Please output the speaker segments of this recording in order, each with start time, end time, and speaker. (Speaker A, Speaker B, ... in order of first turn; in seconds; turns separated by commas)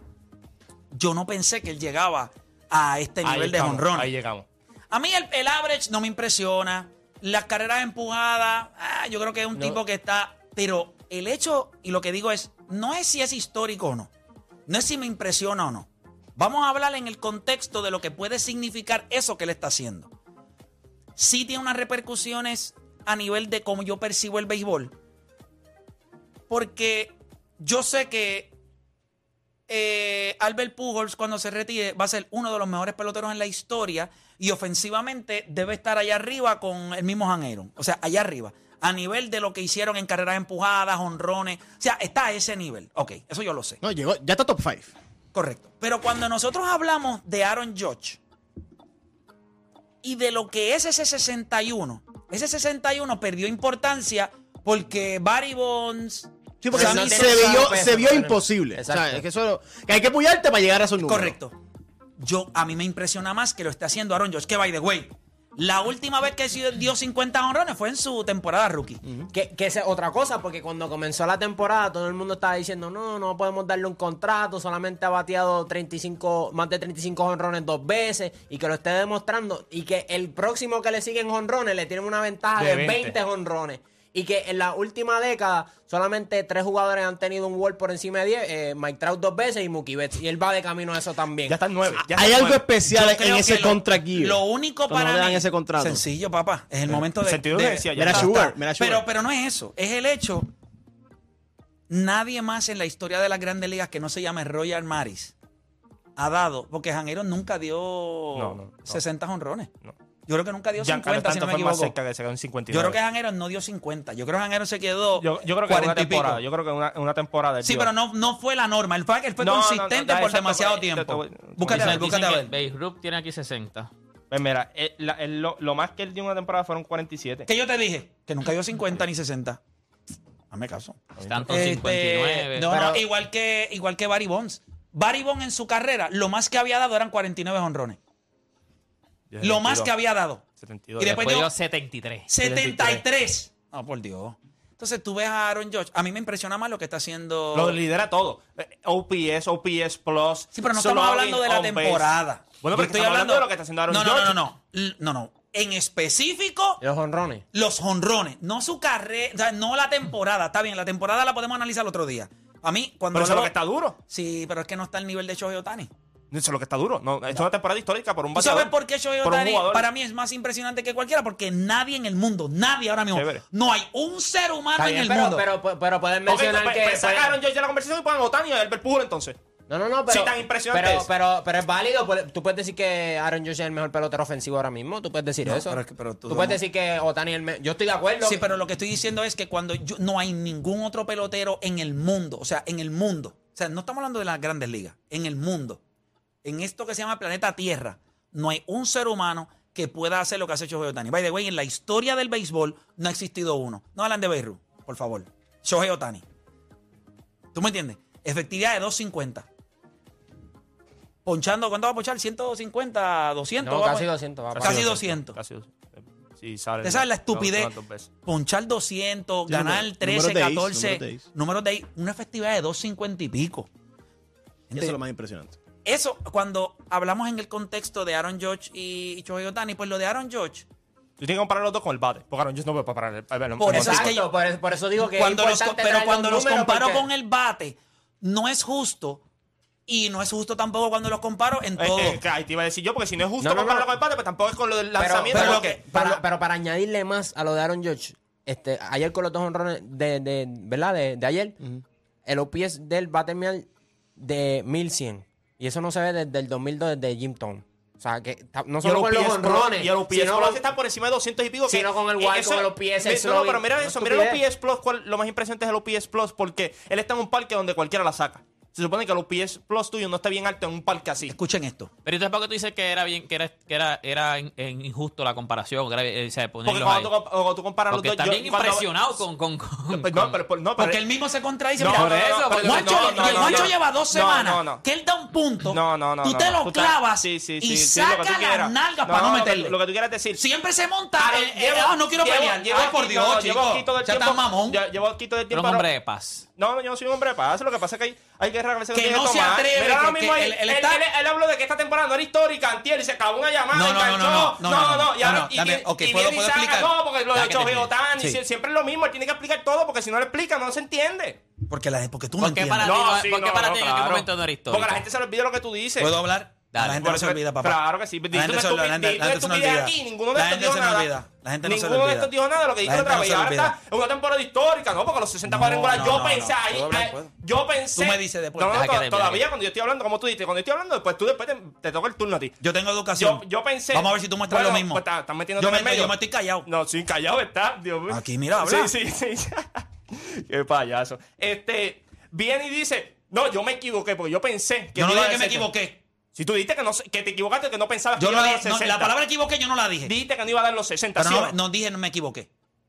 Speaker A: 0.9-4.1, Speaker B: 3.2-4.5, Speaker A: 4.9-14.1, Speaker A: 14.7-20.1, Speaker A: 21.1-24.9, Speaker A: 26.5-28.5, Speaker A: 29.7-43.8, Speaker C: 43.8-44.9, Speaker A: 45.3-48.2, Speaker A: 50.0-57.7, Speaker C: 56.6-61.4, Speaker D: 56.7-59.2, Speaker A: 61.0-61.5, Speaker A: 62.2-69.0, Speaker D: 69.3-91.6, Speaker B: 82.5-83.2, Speaker B: 91.5-92.7, Speaker C: 91.9-96.0, Speaker A: 92.8-100.5, Speaker B: 96.9-98.5, Speaker C: 98.0-99.0, Speaker A: 101.9-105.3, Speaker A: 106.2-109.7, Speaker B: 108.3-109.0, Speaker A: 110.3-112.0, Speaker B: 110.8-113.0, Speaker A: 112.7-116.4, Speaker B: 115.2-117.9, Speaker A: 117.6-122.5, Speaker B: 119.4-122.2, Speaker E: 121.7-123.9, Speaker B: 124.3-127.5, Speaker A: 127.5-129.6, Speaker A: 130.5-138.0, Speaker B: 131.2-131.8, Speaker E: 131.2-132.8, Speaker D: 132.6-133.0, Speaker B: 139.3-139.9, Speaker A: 139.4-140.4, Speaker B: 140.6-141.2, Speaker A: 141.0-141.5, Speaker E: 141.0-142.3, Speaker A: 142.3-147.8, Speaker B: 142.4-143.0, Speaker B: 147.5-154.4, Speaker A: 150.5-156.8, Speaker D: 156.8-157.4, Speaker A: 157.5-163.5, Speaker B: 163.1-164.0, Speaker A: 164.1-165.9, Speaker B: 166.3-169.9, Speaker A: 168.3-175.4, Speaker B: 173.1-173.4, Speaker D: 174.7-177.4, Speaker B: 176.2-179.4, Speaker D: 179.7-188.4, Speaker B: 180.1-181.1, Speaker A: 185.4-186.6, Speaker A: 188.2-195.8, Speaker A: 196.4-206.2, Speaker A: 207.5-209.5, Speaker A: 211.2-214.1, Speaker D: 213.6-214.9, Speaker B: 214.5-218.1, Speaker A: 214.6-215.4, Speaker A: 216.8-217.7, Speaker A: 218.2-223.7, Speaker C: 219.5-221.2, Speaker A: 224.7-225.0, Speaker C: 224.7-225.5, Speaker A: 225.8-230.6, Speaker B: 231.2-234.1, Speaker A: 233.6-234.3, Speaker D: 233.7-237.1, Speaker A: 235.0-239.2, Speaker A: 239.9-242.2, Speaker B: 241.8-245.8, Speaker D: 243.4-244.0, Speaker D: 244.9-251.6, Speaker A: 245.3-246.1, Speaker D: 252.2-260.6, Speaker B: 258.8-271.3, Speaker D: 261.7-264.4, Speaker A: 271.2-271.9, Speaker E: 272.0-277.1, Speaker B: 276.6-278.9, Speaker E: 277.9-280.4, Speaker B: 279.9-281.0, Speaker A: 280.8-289.8, Speaker B: 281.8-284.8, Speaker E: 281.8-283.7, Speaker B: 285.7-290.4, Speaker A: 290.4-294.8, Speaker B: 291.2-295.9, Speaker E: 295.5-296.4, Speaker B: 296.6-311.4, Speaker A: 298.9-301.0, Speaker A: 303.7-306.9, Speaker E: 307.3-307.9, Speaker A: 311.7-312.9, Speaker E: 312.4-315.0, Speaker B: 312.8-316.2, Speaker A: 316.0-322.3, Speaker E: 316.7-317.1, Speaker B: 317.0-321.1, Speaker B: 321.6-332.6, Speaker A: 322.8-323.7, Speaker A: 325.5-327.3, Speaker A: 327.9-328.8, Speaker E: 328.7-329.4, Speaker A: 332.6-335.0, Speaker B: 333.1-345.7, Speaker A: 335.6-336.7, Speaker A: 338.1-338.9, Speaker A: 344.9-346.0, Speaker B: 346.3-349.1, Speaker A: 348.2-350.2, Speaker B: 350.0-351.6, Speaker A: 351.1-352.5